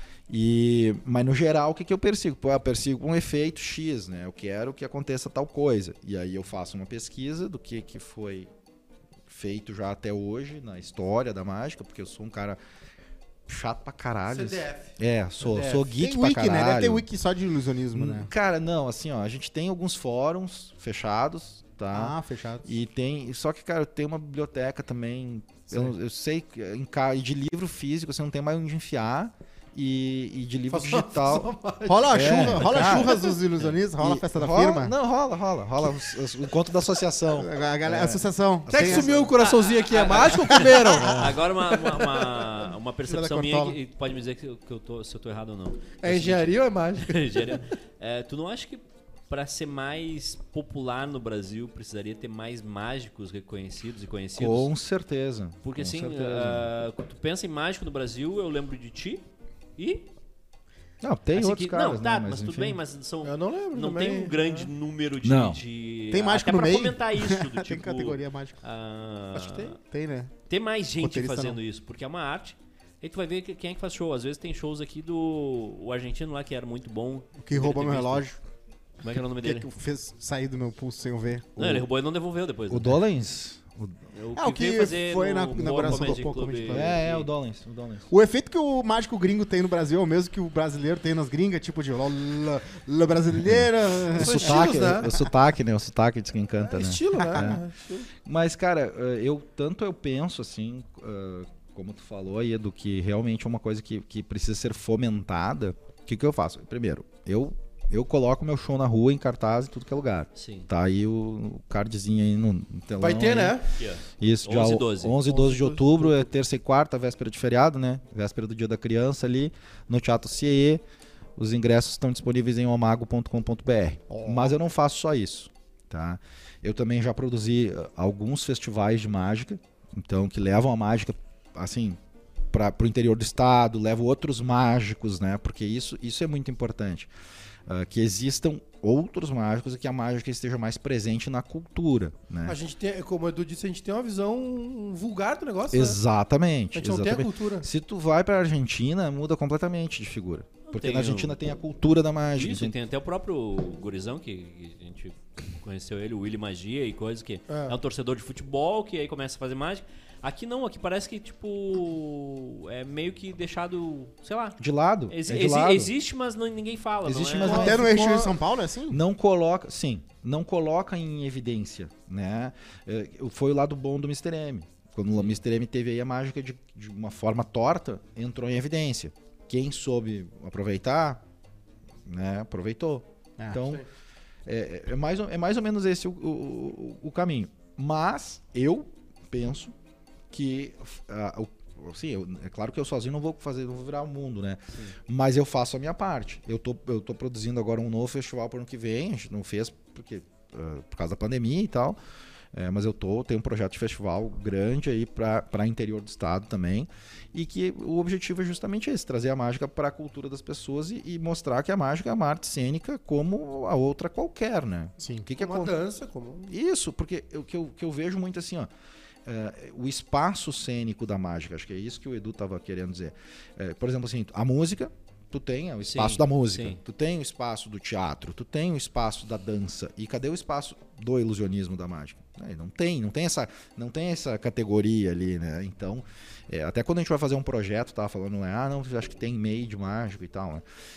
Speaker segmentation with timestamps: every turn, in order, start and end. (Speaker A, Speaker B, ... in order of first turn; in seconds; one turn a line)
Speaker A: 0.3-8.5
Speaker A: 9.3-12.6
Speaker A: 13.5-17.1
Speaker B: 14.3-15.9
Speaker C: 16.0-18.3
Speaker A: 17.9-31.5
Speaker C: 21.9-22.7
Speaker B: 30.7-33.3
Speaker C: 31.9-34.9
Speaker A: 32.1-33.3
Speaker A: 34.0-38.2
Speaker C: 37.4-39.3
Speaker B: 38.7-42.6
Speaker D: 38.8-54.7
Speaker C: 40.4-41.4
Speaker C: 43.1-43.8
Speaker B: 46.0-47.6
Speaker A: 54.3-56.7
Speaker D: 55.6-59.2
Speaker D: 59.8-60.1
Speaker A: 61.0-62.8
Speaker D: 61.3-69.8
Speaker B: 63.2-64.7
Speaker A: 65.2-65.6
Speaker C: 66.1-68.6
Speaker B: 69.3-69.8
Speaker C: 69.9-70.3
Speaker D: 70.5-78.3
Speaker C: 71.0-71.6
Speaker C: 77.4-78.4
Speaker D: 79.0-79.7
Speaker C: 79.4-81.5
Speaker A: 81.6-81.9
Speaker D: 81.6-83.0
Speaker A: 82.7-84.0
Speaker D: 84.1-87.2
Speaker C: 84.3-87.0
Speaker A: 86.7-88.1
Speaker C: 88.1-95.2
Speaker A: 93.5-97.6
Speaker B: 94.1-95.1
Speaker B: 96.7-98.1
Speaker C: 97.2-97.5
Speaker A: 98.2-113.6
Speaker D: 110.3-110.7
Speaker B: 113.0-113.7
Speaker D: 113.8-115.2
Speaker A: 114.2-120.8
Speaker B: 115.2-116.3
Speaker A: 121.4-132.0
Speaker A: 132.5-137.1
Speaker A: 137.7-142.6
Speaker B: 142.4-146.0
Speaker A: 145.7-152.8
Speaker B: 146.7-147.7
Speaker D: 150.7-151.4
Speaker D: 152.3-167.7
Speaker B: 157.5-157.8
Speaker A: 164.6-165.9
Speaker A: 167.0-168.3
Speaker B: 167.4-168.2
Speaker C: 167.4-169.0
Speaker A: 168.9-181.2
Speaker A: 182.1-183.8
Speaker A: 184.4-189.7
Speaker A: 190.3-202.0
Speaker A: 202.5-215.7
Speaker C: 215.0-215.3
Speaker B: 215.4-216.5
Speaker A: 216.5-218.7
Speaker A: 219.2-240.6
Speaker D: 225.9-226.8